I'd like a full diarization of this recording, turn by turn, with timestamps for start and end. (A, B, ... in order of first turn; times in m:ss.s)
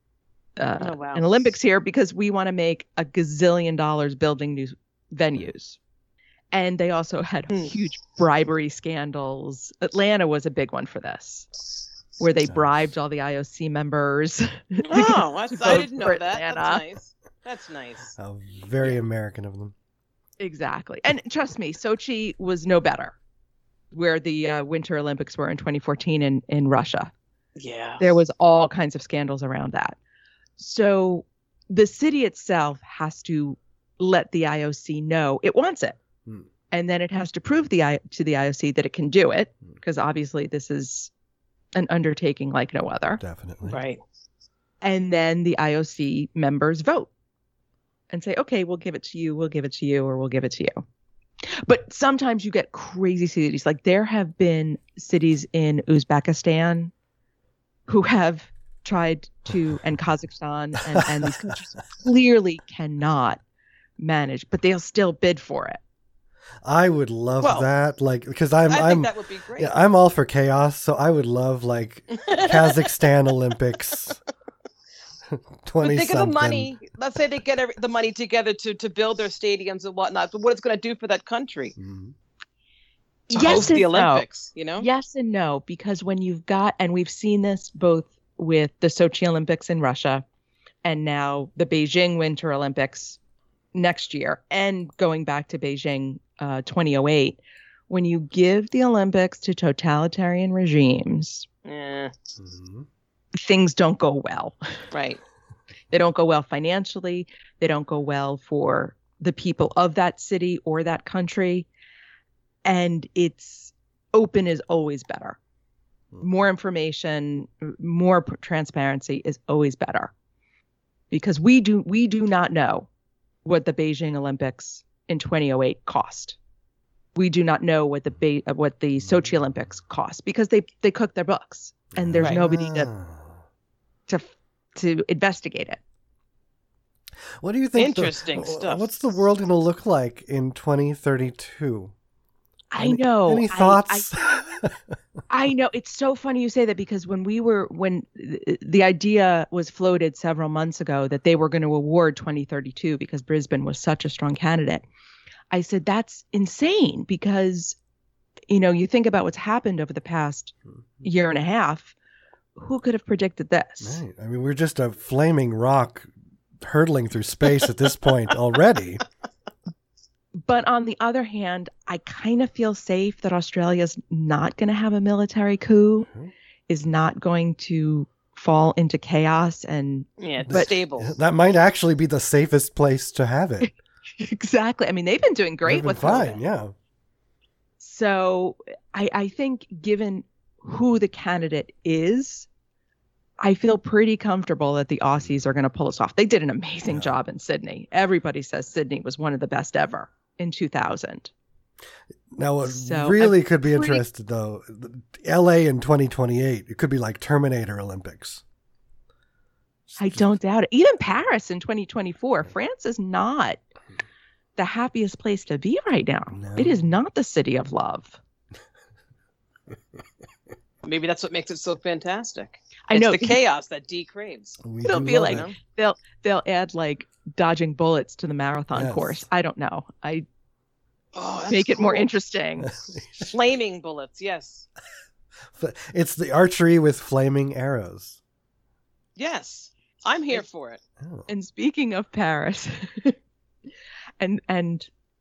0:00.6-0:05.8 A
0:00.8-0:01.2 B
0:06.5-0:11.5 A
0:12.2-0:16.8 A
0:12.5-0:12.8 C
0:14.8-0:18.2 B
0:18.2-0:19.7 C
0:20.4-0:23.2 A
0:23.9-0:27.1 A
0:27.6-0:28.0 B
0:28.0-0:30.0 A
0:30.6-0:36.0 A
0:36.7-0:41.1 A
0:41.8-0:43.2 A
0:43.2-0:43.8 C
0:43.7-0:44.0 B
0:44.8-0:47.1 A
0:48.1-0:50.8 A
0:51.6-0:56.9 A
0:57.9-1:03.4 A
1:01.0-1:01.3 C
1:04.0-1:05.8 A
1:06.6-1:14.2 C
1:07.4-1:07.7 B
1:08.7-1:09.8 B
1:12.1-1:12.9 B
1:15.3-1:16.7 C
1:15.8-1:21.8 B
1:21.8-1:22.2 C
1:23.3-1:24.2 A
1:23.3-1:24.9 B
1:24.8-1:30.2 A
1:30.8-1:33.2 A
1:33.7-1:41.5 A
1:41.6-1:42.1 B
1:42.4-1:42.9 C
1:43.4-1:44.6 A
1:44.9-1:45.2 B
1:45.9-1:51.7 A
1:52.6-1:55.4 A
1:56.2-2:00.1 A
2:01.1-2:02.9 A
2:03.4-2:06.4 A
2:07.2-2:12.9 A
2:12.0-2:13.4 C
2:14.1-2:15.8 A
2:17.4-2:21.9 C
2:17.8-2:18.8 B
2:22.7-2:24.1 A
2:22.8-2:24.8 C
2:25.3-2:34.8 A
2:35.5-2:37.8 A
2:38.5-2:41.9 A
2:42.6-2:44.0 A
2:43.8-2:46.1 C
2:46.6-2:49.0 C
2:50.4-2:56.1 A
2:56.7-3:00.8 A
3:00.2-3:01.1 B
3:00.5-3:03.7 C
3:03.6-3:06.4 A
3:05.6-3:06.7 C
3:07.8-3:12.5 A
3:13.4-3:21.3 A
3:16.9-3:17.1 C
3:22.3-3:28.4 C
3:22.6-3:24.0 A
3:29.9-3:30.2 C
3:30.0-3:33.6 A
3:34.6-3:38.2 A
3:36.3-3:36.9 C
3:40.8-3:44.6 B
3:42.9-3:43.4 A
3:44.6-3:45.5 C
3:44.8-3:50.2 A
3:45.3-3:45.6 B
3:48.7-3:49.3 C
3:51.1-3:52.1 B
3:51.5-3:52.7 A
3:52.6-3:53.4 C
3:53.3-3:54.7 B
3:55.6-3:58.2 C
3:59.2-4:00.8 B
4:01.0-4:01.3 C
4:01.3-4:03.2 A
4:04.2-4:04.9 A